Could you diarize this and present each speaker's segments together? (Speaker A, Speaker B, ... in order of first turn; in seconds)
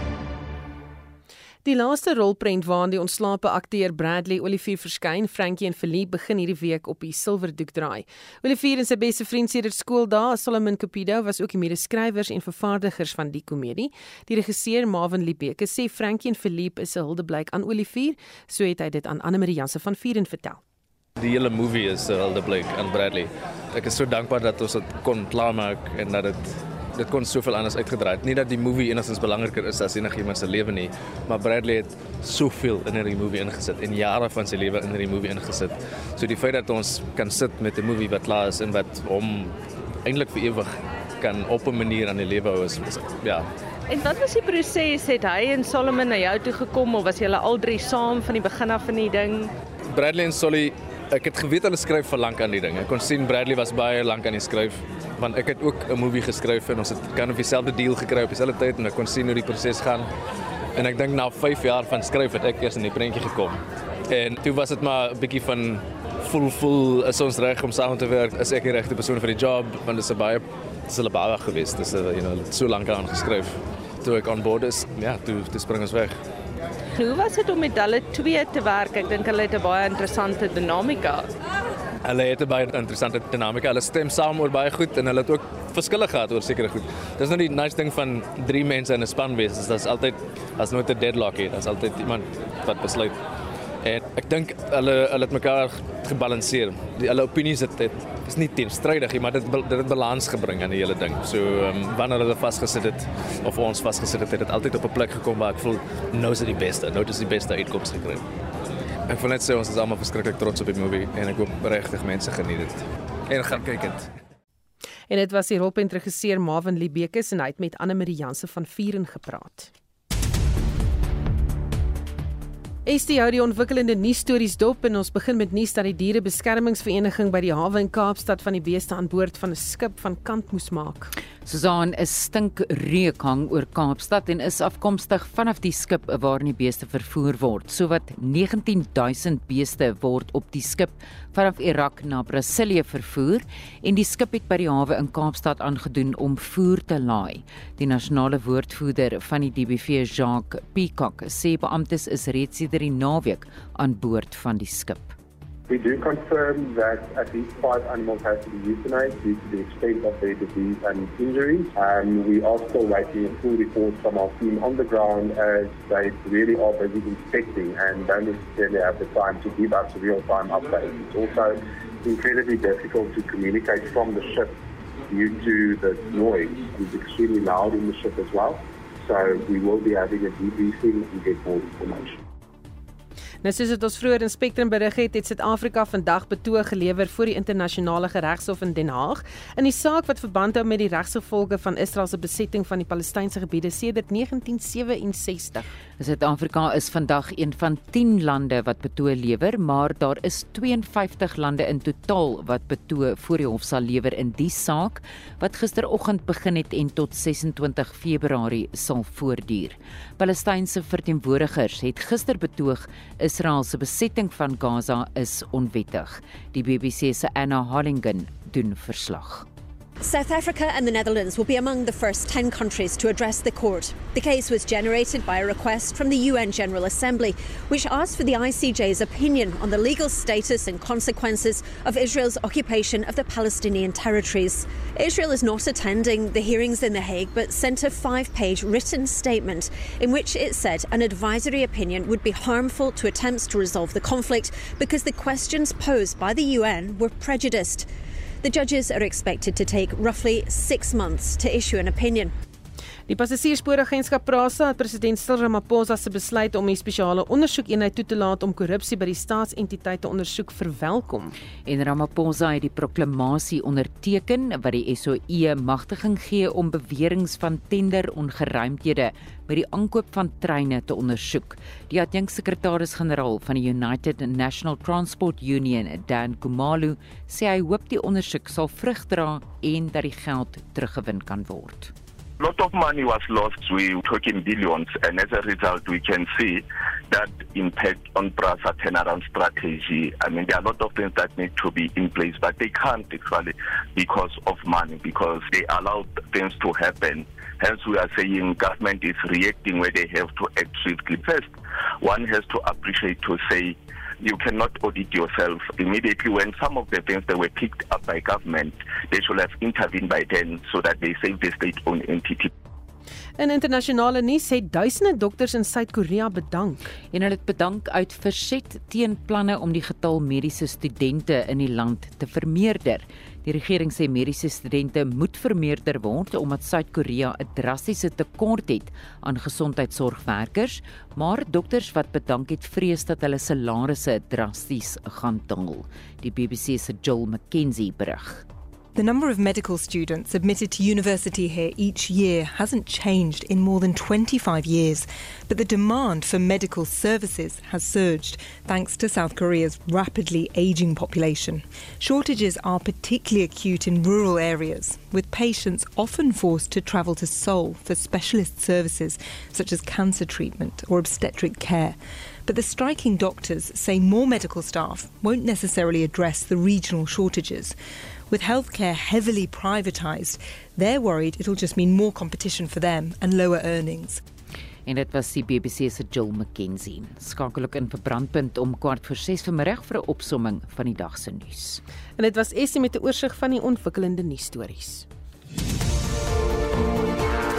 Speaker A: 1.6-20.6, 115.1-119.7, 122.8-131.1, 183.4-195.7, 253.1-261.3, 313.4-316.9, 382.2-385.0
Speaker B: 21.2-43.5, 49.9-60.1, 60.8-76.2, 82.0-93.2, 93.8-108.2, 109.1-114.1
Speaker C: 43.9-49.5, 77.0-81.3
Speaker D: 131.4-155.1, 196.0-219.4, 261.6-281.9, 317.1-338.4, 374.9-381.8
Speaker E: 155.7-182.2
Speaker F: 220.0-247.9, 248.4-252.3
Speaker G: 282.4-312.5
Speaker H: 338.9-367.7, 368.3-374.2